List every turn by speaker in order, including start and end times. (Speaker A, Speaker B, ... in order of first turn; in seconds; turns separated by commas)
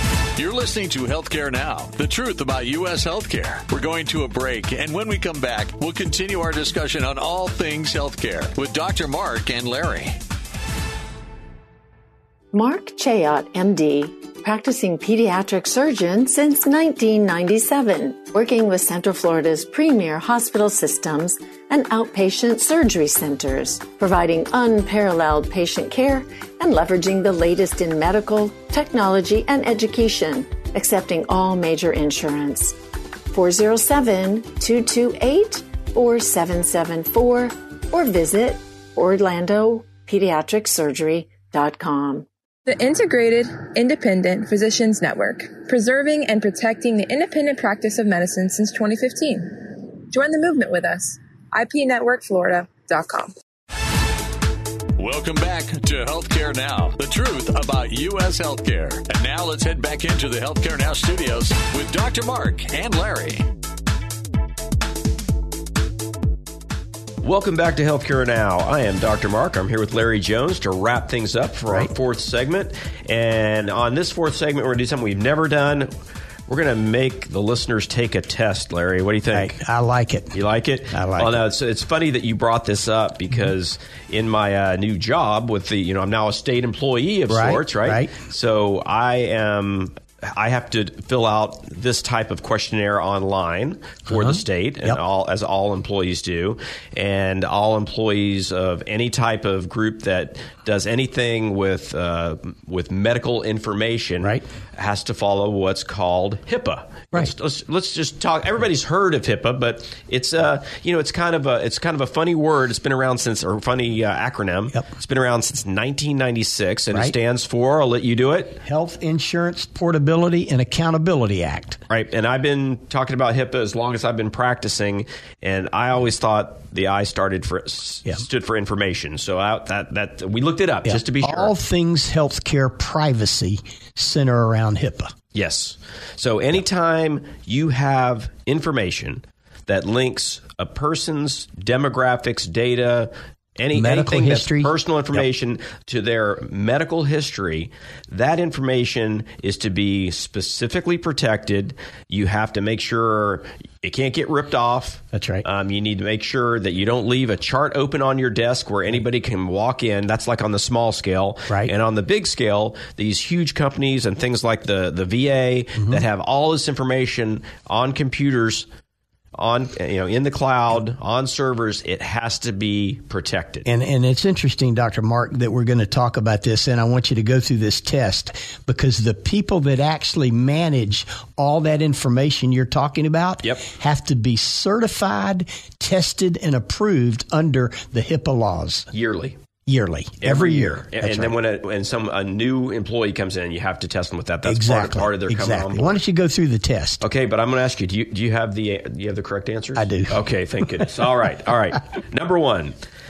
Speaker A: 0.3-10.2, Speaker B: 12.5-32.8, Speaker B: 33.3-42.3, Speaker C: 42.6-53.3, Speaker A: 55.0-63.5, Speaker D: 67.2-75.9, Speaker D: 76.5-79.5, Speaker E: 79.3-80.3, Speaker D: 80.3-118.6, Speaker E: 80.9-81.4, Speaker E: 87.3-88.1, Speaker E: 118.6-121.8, Speaker D: 121.9-131.5, Speaker E: 130.8-135.1, Speaker D: 135.3-168.7, Speaker E: 143.7-144.7, Speaker E: 155.1-155.4, Speaker D: 169.3-173.7, Speaker E: 173.7-188.9, Speaker D: 188.9-189.4, Speaker E: 189.7-191.3, Speaker D: 190.2-196.0, Speaker E: 194.4-197.0, Speaker D: 197.0-202.8, Speaker E: 199.7-200.2